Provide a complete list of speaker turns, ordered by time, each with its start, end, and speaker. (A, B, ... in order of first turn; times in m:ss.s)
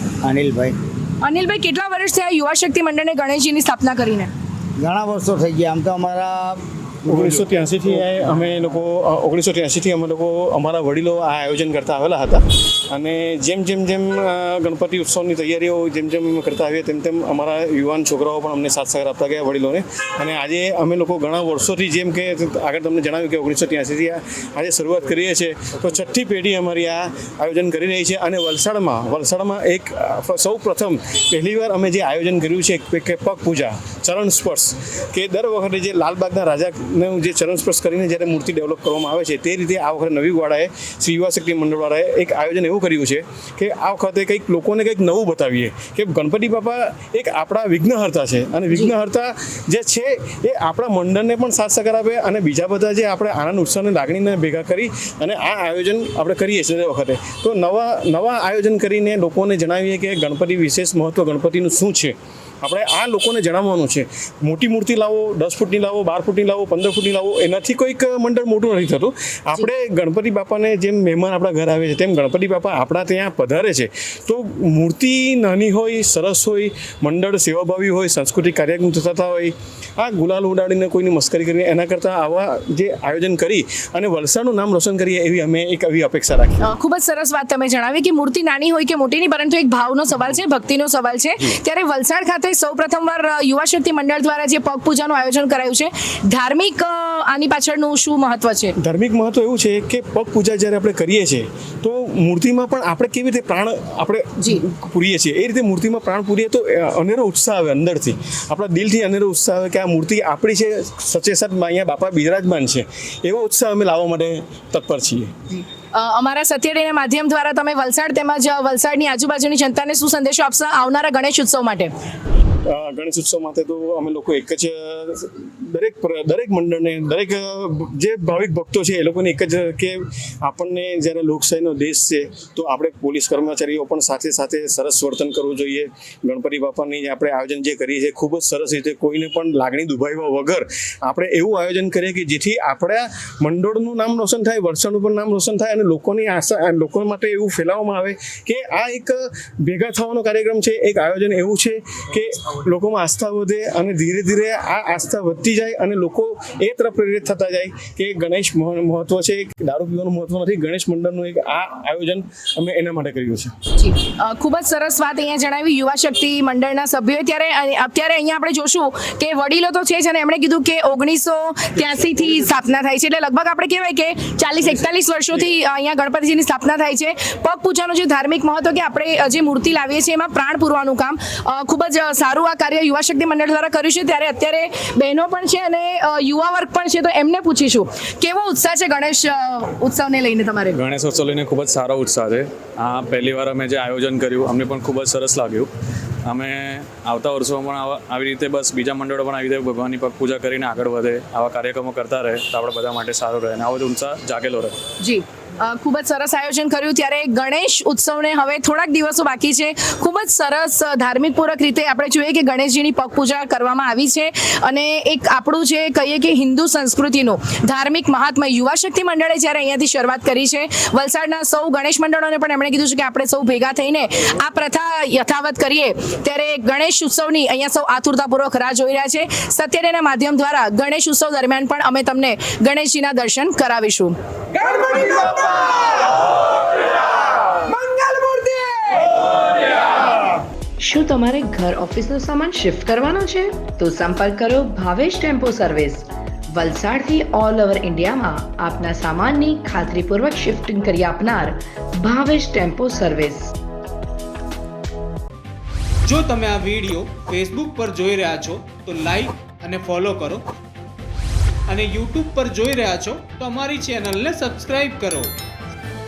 0:00.2-0:00.8 A
0:01.2-0:04.3 B
0:04.8-0:08.0 A
0:07.1-1:26.7 C
1:26.6-1:38.8 B
1:38.8-1:55.3 C
1:55.5-2:01.9 B
2:02.6-2:43.5 C
2:43.8-3:10.8 B
3:10.7-3:15.7 D
3:16.2-3:24.8 D
3:25.0-3:54.1 B
3:54.6-3:55.9 E
3:57.8-3:59.2 E
4:00.8-4:13.5 E
4:16.0-4:20.4 F
4:21.7-4:25.3 F